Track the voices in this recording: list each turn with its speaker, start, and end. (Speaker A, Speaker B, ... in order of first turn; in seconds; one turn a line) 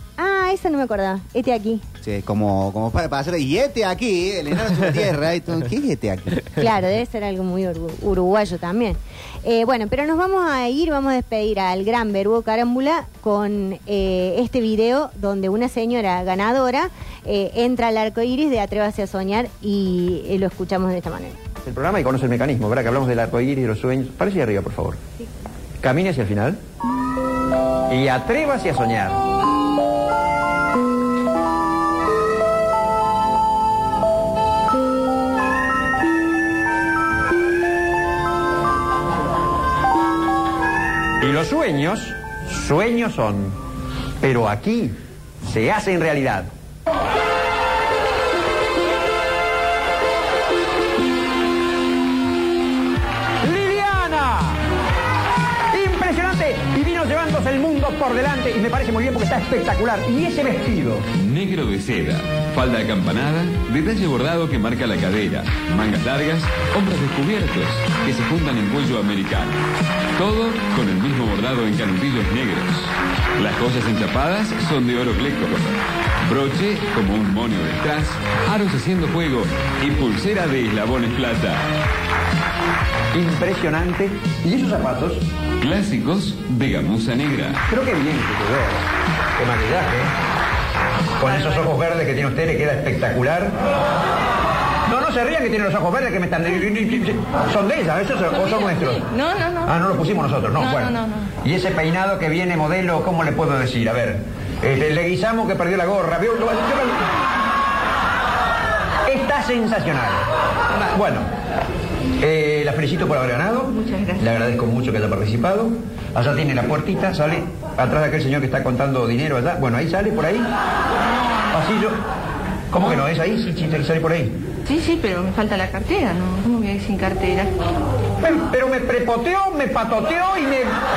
Speaker A: 0.2-1.8
Speaker B: 2.0-6.5
Speaker A: 6.5-21.4
Speaker C: 21.6-25.0
Speaker C: 25.8-26.6
Speaker C: 27.9-29.2
Speaker C: 41.2-43.5
Speaker C: 44.2-46.5
Speaker C: 53.4-54.6
Speaker C: 55.7-61.1
Speaker D: 61.1-69.6
Speaker D: 70.1-81.7
Speaker C: 83.1-85.2
Speaker D: 85.6-87.6
Speaker C: 87.7-90.1
Speaker C: 91.2-93.6
Speaker E: 91.3-91.7
Speaker C: 94.8-99.0
Speaker E: 99.0-99.9
Speaker C: 99.6-107.1
Speaker E: 100.5-101.3
Speaker C: 109.0-110.2
Speaker C: 110.9-111.3
Speaker C: 112.2-120.5
Speaker E: 113.7-114.3
Speaker C: 121.5-122.0
Speaker C: 122.7-124.3
Speaker E: 122.8-123.1
Speaker E: 124.7-127.5
Speaker C: 128.2-130.8